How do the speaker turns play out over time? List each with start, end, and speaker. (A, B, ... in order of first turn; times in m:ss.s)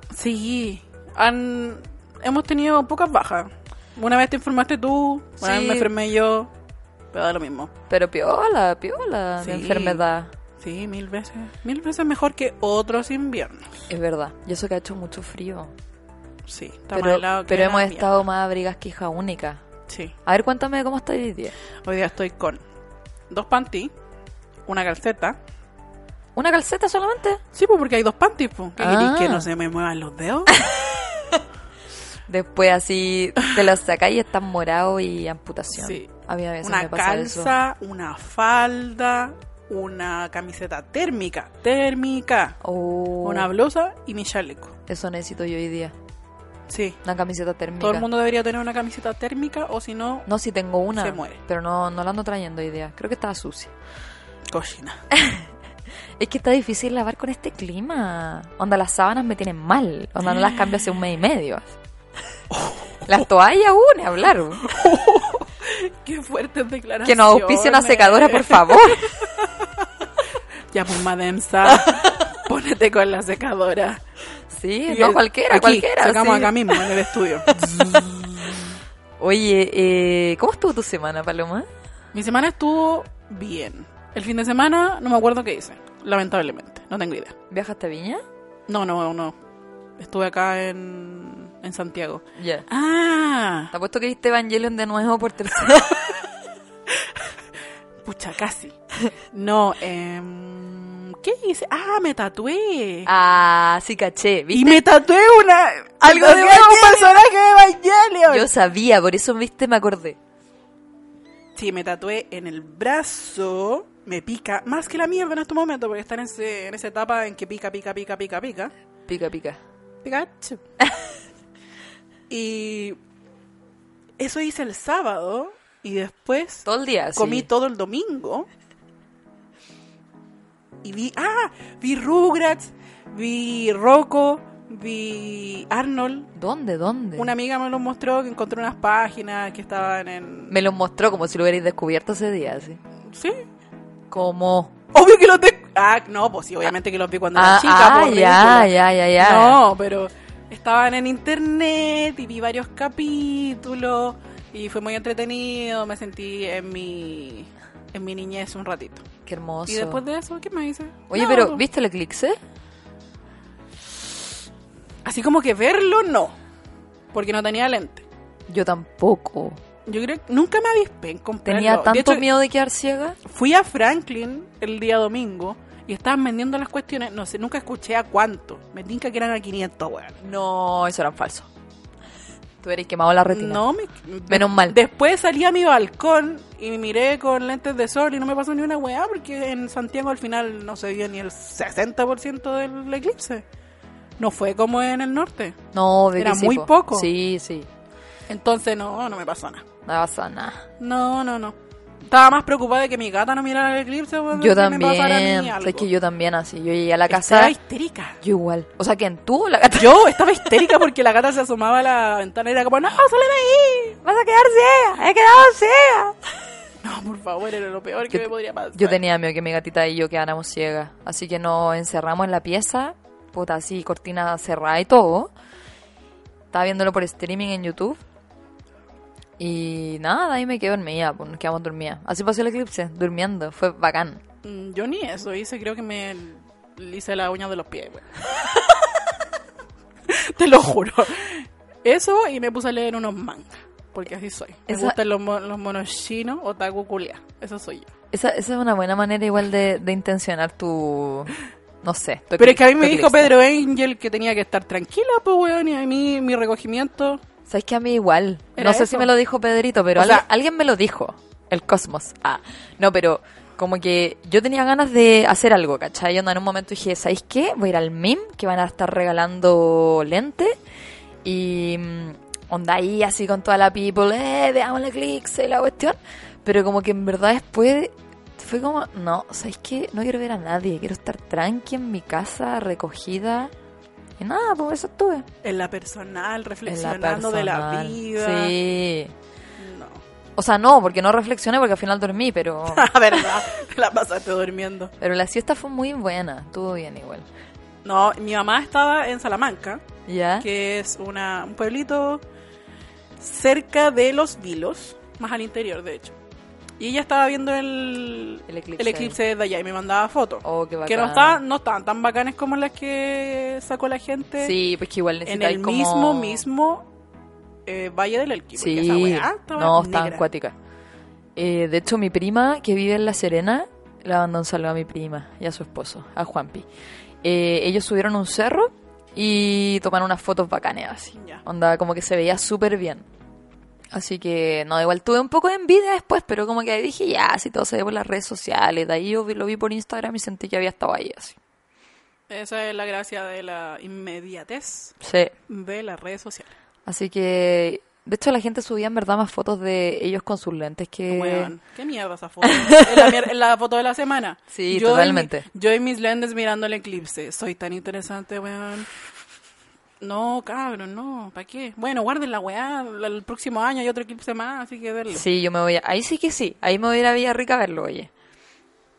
0:00.1-0:06.5 A
0:05.4-0:05.9 B
0:07.1-0:07.7 A
0:07.9-0:10.3 B
0:09.4-0:10.0 A
0:10.6-0:13.6 A
0:13.9-0:15.7 B
0:16.5-0:18.2 A
0:16.9-0:19.6 B
0:19.9-0:20.1 A
0:20.2-0:21.5 B
0:21.8-0:22.6 A
0:23.3-0:23.9 A
0:24.7-0:25.4 A
0:26.4-0:27.4 B
0:27.5-0:30.6 A
0:28.8-0:29.5 B
0:32.3-0:37.5 B
0:35.7-0:36.1 A
0:36.6-0:42.6 A
0:42.6-0:43.5 B
0:43.2-0:44.7 A
0:44.9-0:45.9 B
0:46.7-0:47.0 A
0:47.0-0:48.0 B
0:47.8-0:50.3 A
0:50.3-0:53.7 B
0:50.9-0:51.4 A
0:54.5-0:55.0 A
0:55.1-0:55.4 B
0:56.2-1:01.7 B
1:02.5-1:02.8 A
1:03.1-1:04.7 B
1:04.6-1:09.6 A
1:07.0-1:09.1 B
1:10.7-1:14.0 A
1:14.5-1:16.8 B
1:14.9-1:18.5 A
1:17.6-1:18.2 B
1:19.2-1:21.7 B
1:22.1-1:27.3 A
1:27.5-1:28.2 B
1:28.7-1:29.3 A
1:30.0-1:33.7 A
1:32.4-1:32.6 B
1:33.7-1:36.1 B
1:38.0-1:38.8 A
1:39.3-1:43.1 A
1:43.0-1:44.8 B
1:44.5-1:48.5 A
1:46.0-1:47.1 B
1:48.3-1:50.2 B
1:51.5-1:58.7 A
1:59.1-1:59.6 B
2:00.0-2:00.6 A
2:02.3-2:03.0 A
2:04.2-2:08.5 A
2:06.6-2:07.5 B
2:10.8-2:16.3 A
2:16.3-2:17.3 B
2:17.2-2:20.5 A
2:20.5-2:22.8 B
2:23.1-2:23.4 A
2:24.1-2:24.7 B
2:24.9-2:39.0 A
2:27.3-2:29.6 B
2:39.2-2:40.0 B
2:39.7-2:41.6 A
2:41.1-2:42.4 B
2:45.0-2:46.4 A
2:47.1-2:48.0 A
2:48.5-2:49.6 B
2:49.8-2:52.2 A
2:51.4-2:53.2 B
2:53.2-3:00.2 A
3:00.2-3:01.5 B
3:02.6-3:03.6 B
3:03.3-3:13.4 A
3:04.3-3:04.8 B
3:14.2-3:15.6 A
3:15.7-3:17.7 B
3:16.2-3:17.1 A
3:18.3-3:19.6 A
3:19.8-3:20.6 B
3:20.8-3:21.6 A
3:22.1-3:25.9 A
3:24.3-3:27.5 B
3:27.1-3:28.2 A
3:28.2-3:30.5 B
3:29.7-3:34.0 A
3:34.0-3:36.1 B
3:36.8-3:39.0 A
3:38.1-3:45.3 B
3:46.5-3:48.0 B
3:49.4-3:54.2 B
3:54.4-3:58.5 A
4:00.1-4:07.9 A
4:04.7-4:05.0 B
4:08.1-4:13.3 B
4:12.4-4:17.2 A
4:17.5-4:30.6 B
4:18.6-4:19.1 A
4:20.0-4:20.2 A
4:31.2-4:43.5 B
4:44.2-4:45.2 B
4:45.4-4:48.5 A
4:46.6-4:49.1 B
4:49.6-4:50.0 A
4:50.4-4:52.9 B
4:52.7-4:54.9 A
4:55.0-4:57.3 B
4:57.8-4:59.8 A
5:00.1-5:00.4 B
5:00.4-5:02.2 A
5:03.2-5:06.1 A
5:06.8-5:14.5 A
5:08.5-5:09.2 B
5:10.4-5:11.4 B
5:14.4-5:16.4 B
5:15.2-5:16.9 A
5:17.6-5:20.2 A
5:18.6-5:20.5 B
5:21.4-5:26.6 B
5:27.2-5:33.0 B
5:31.1-5:31.4 A
5:33.9-5:41.4 B
5:42.3-5:44.9 A
5:45.0-5:45.3 B
5:45.5-5:46.5 A
5:46.9-5:51.5 B
5:51.1-5:58.9 A
5:52.4-5:53.0 B
5:54.5-5:55.4 B
6:00.0-6:05.2 A
6:05.1-6:08.1 B